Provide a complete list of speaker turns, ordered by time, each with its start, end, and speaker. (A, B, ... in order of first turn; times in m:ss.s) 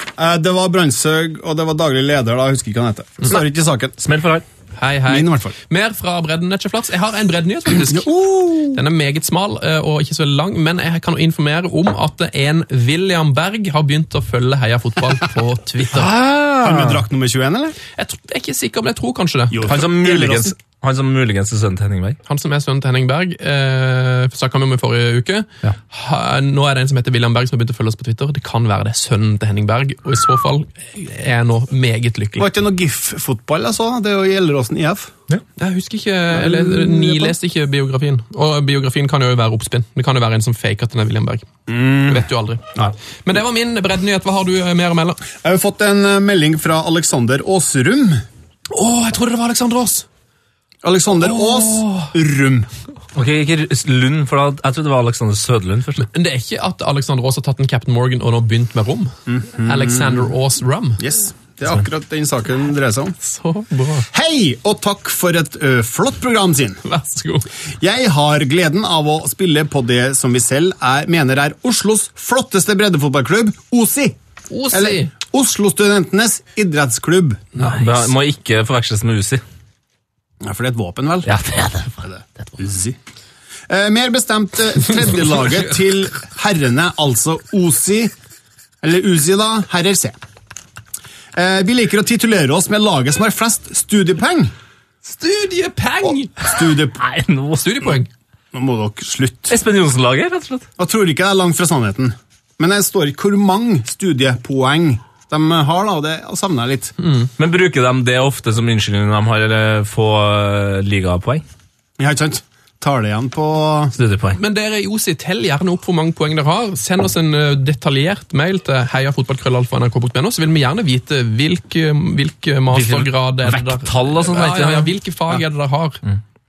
0:00.2-0:04.0 A
0:04.0-0:04.4 B
0:04.8-0:08.1 C
0:05.1-0:05.5 A
0:07.8-0:08.8 A
0:08.7-0:16.1 C
0:15.9-0:17.0 B
0:16.6-0:17.8 A
0:17.9-0:19.7 C
0:19.5-0:20.6 A
0:19.7-0:22.2 B
0:22.3-0:32.5 C
0:32.4-0:35.1 A
0:35.6-0:45.3 C
0:41.7-0:42.9 A
0:45.4-0:48.2 A
0:48.7-0:50.1 C
0:50.8-0:52.7 A
0:51.4-0:51.8 C
0:53.2-0:56.1 B
0:56.0-1:01.1 C
0:59.3-1:00.3 A
1:01.0-1:03.2 A
1:03.2-1:04.1 C
1:04.1-1:06.8 A
1:06.8-1:07.5 C
1:07.8-1:14.2 A
1:14.5-1:15.1 C
1:14.7-1:17.5 A
1:17.6-1:19.4 B
1:17.6-1:18.1 C
1:20.4-1:21.4 A
1:21.2-1:22.1 B
1:22.0-1:23.0 A
1:23.7-1:28.1 A
1:28.8-1:30.2 A
1:31.4-1:34.5 A
1:35.0-1:36.5 C
1:36.4-1:37.0 A
1:37.0-1:37.9 B
1:37.6-1:38.1 C
1:38.5-1:39.6 A
1:39.5-1:40.7 B
1:40.8-1:46.9 A
1:47.0-1:47.3 C
1:47.4-1:51.4 B
1:52.0-1:53.9 A
1:54.0-1:54.4 B
1:54.4-2:06.0 C
2:02.7-2:05.4 B